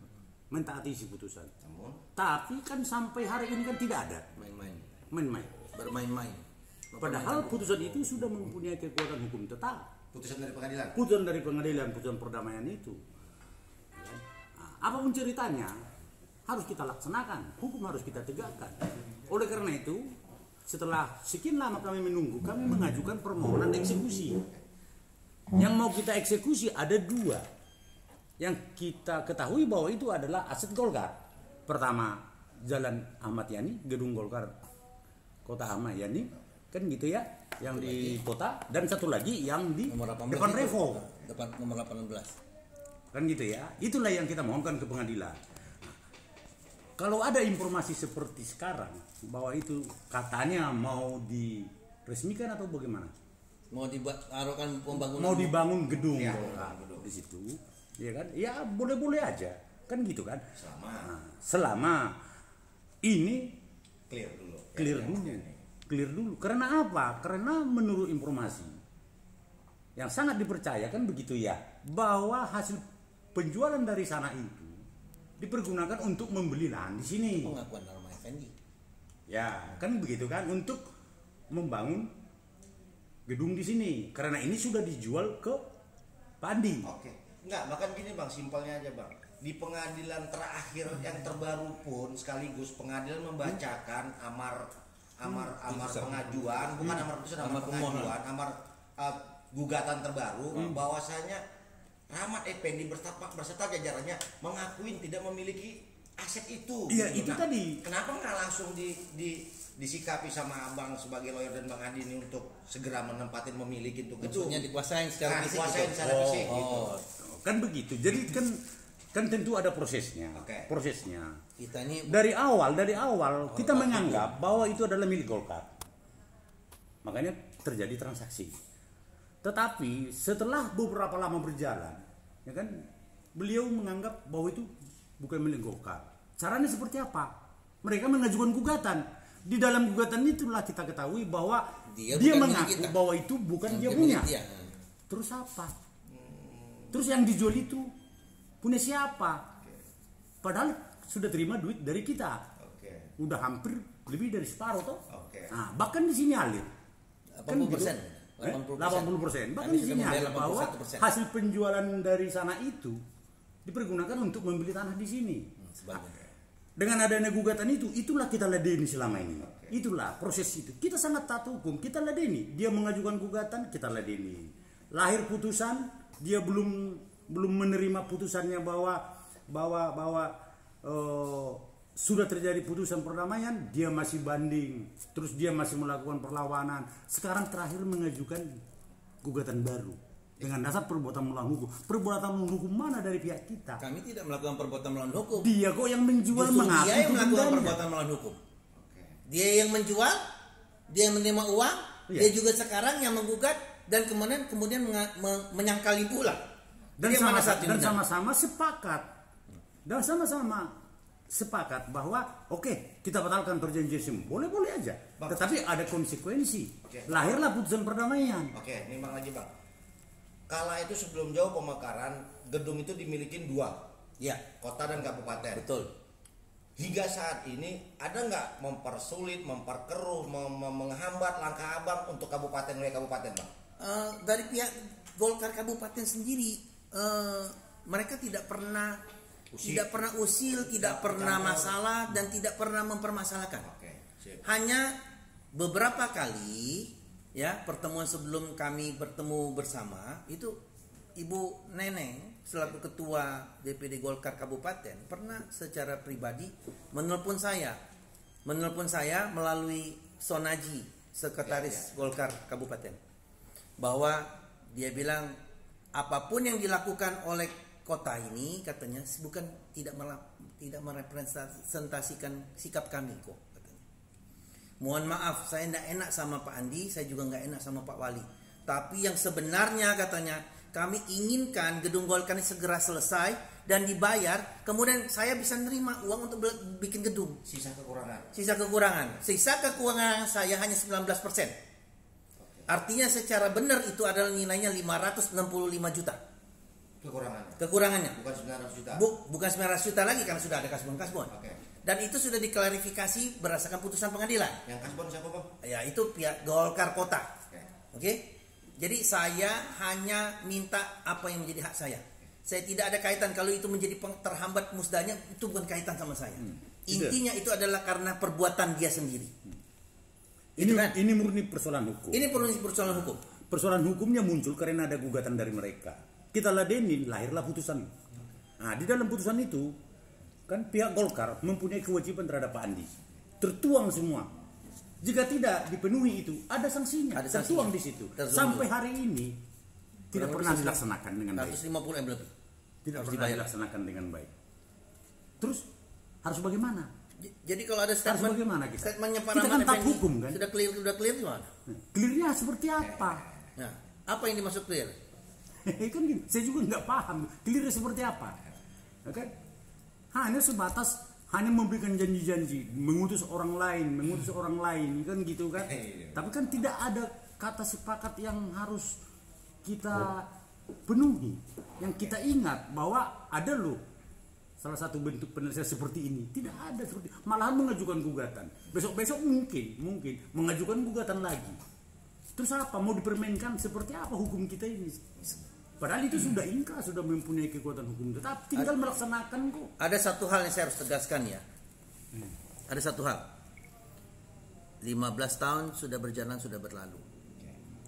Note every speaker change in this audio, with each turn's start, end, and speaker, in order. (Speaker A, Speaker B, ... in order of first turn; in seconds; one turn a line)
Speaker A: 0.5-1.5
Speaker B: 1.6-2.0
Speaker A: 2.2-4.3
Speaker C: 4.4-4.8
Speaker A: 5.1-5.7
Speaker C: 5.7-8.0
Speaker A: 7.0-9.9
Speaker B: 10.1-11.0
Speaker A: 10.9-13.0
Speaker A: 13.9-15.8
Speaker A: 16.5-20.0
Speaker A: 20.7-24.4
Speaker A: 25.5-27.4
Speaker A: 28.4-34.5
Speaker A: 35.5-41.1
Speaker C: 37.8-38.2
Speaker C: 39.9-42.4
Speaker A: 43.1-46.0
Speaker A: 47.0-53.1
Speaker C: 53.7-55.6
Speaker A: 54.9-60.4
Speaker B: 56.1-57.1
Speaker B: 60.6-61.1
Speaker A: 61.0-62.2
Speaker A: 63.0-63.5
Speaker B: 64.1-65.6
Speaker A: 64.8-68.8
Speaker A: 70.0-72.8
Speaker A: 73.3-74.8
Speaker A: 75.4-77.5
Speaker C: 77.4-78.5
Speaker A: 79.3-80.8
Speaker A: 81.5-82.1
Speaker A: 83.3-85.6
Speaker A: 86.4-86.9
Speaker B: 86.8-101.4
Speaker C: 95.7-96.2
Speaker C: 97.4-98.2
Speaker A: 100.5-100.8
Speaker B: 102.1-114.7
Speaker A: 106.9-107.8
Speaker C: 114.2-117.0
Speaker B: 115.2-117.0
Speaker A: 116.0-116.6
Speaker A: 117.2-118.6
Speaker A: 119.1-121.4
Speaker B: 120.3-120.7
Speaker C: 121.6-122.2
Speaker A: 122.1-125.7
Speaker C: 123.5-124.3
Speaker A: 127.0-128.5
Speaker A: 129.4-137.3
Speaker A: 137.8-144.3
Speaker C: 141.9-143.0
Speaker C: 143.7-144.7
Speaker A: 145.1-145.7
Speaker B: 146.1-147.0
Speaker A: 146.9-147.9
Speaker A: 148.6-149.4
Speaker A: 150.4-152.4
Speaker B: 152.6-153.1
Speaker A: 153.2-156.7
Speaker B: 155.1-155.6
Speaker C: 157.4-161.1
Speaker A: 157.5-163.0
Speaker A: 163.7-165.5
Speaker C: 165.6-166.3
Speaker A: 166.8-188.6
Speaker B: 169.4-169.8
Speaker A: 189.2-193.8
Speaker C: 193.8-195.5
Speaker A: 195.4-197.8
Speaker C: 196.3-198.4
Speaker B: 198.8-199.2
Speaker C: 199.3-200.2
Speaker C: 200.9-206.4
Speaker A: 207.0-209.1
Speaker C: 207.0-208.0
Speaker A: 209.8-210.8
Speaker A: 211.3-218.5
Speaker B: 215.2-215.5
Speaker B: 216.9-217.4
Speaker B: 218.5-219.5
Speaker B: 220.5-223.8
Speaker B: 224.6-225.7
Speaker C: 225.6-225.9
Speaker B: 226.8-233.5
Speaker C: 233.8-239.0
Speaker B: 239.5-241.8
Speaker C: 239.6-243.7
Speaker B: 243.6-244.4
Speaker C: 244.4-244.9
Speaker C: 245.5-250.6
Speaker C: 251.2-257.8
Speaker C: 258.4-263.0
Speaker B: 261.4-261.9
Speaker C: 263.8-265.4
Speaker C: 265.9-273.8
Speaker C: 274.8-287.4
Speaker B: 287.4-288.3
Speaker C: 288.3-291.6
Speaker B: 292.4-292.7
Speaker C: 292.7-296.2
Speaker B: 297.0-299.0
Speaker C: 297.6-298.2
Speaker C: 298.9-301.3
Speaker B: 301.3-301.6
Speaker C: 301.8-304.6
Speaker B: 304.6-305.5
Speaker C: 305.6-307.3
Speaker C: 307.9-319.3
Speaker A: 316.4-317.2
Speaker C: 320.6-321.0
Speaker A: 320.6-322.2
Speaker C: 322.1-323.2
Speaker A: 323.5-327.9
Speaker A: 328.6-329.8
Speaker A: 330.5-332.9
Speaker A: 333.4-334.3
Speaker A: 335.0-339.4
Speaker C: 337.1-338.7
Speaker A: 340.1-341.6
Speaker C: 340.1-340.8
Speaker C: 341.4-342.3
Speaker A: 342.9-344.3
Speaker C: 342.9-343.5
Speaker A: 345.4-345.6
Speaker A: 346.2-346.9
Speaker C: 347.2-351.5
Speaker A: 348.0-350.4
Speaker A: 351.7-353.2
Speaker C: 353.6-355.0
Speaker A: 355.7-358.4
Speaker A: 359.1-359.3
Speaker A: 360.1-369.0
Speaker B: 365.6-366.2
Speaker A: 369.6-370.3
Speaker A: 370.9-373.8
Speaker A: 374.6-381.6
Speaker A: 382.4-385.1
Speaker A: 385.8-389.7
Speaker C: 388.6-388.9
Speaker C: 389.8-391.4
Speaker C: 392.7-393.2
Speaker C: 394.8-397.0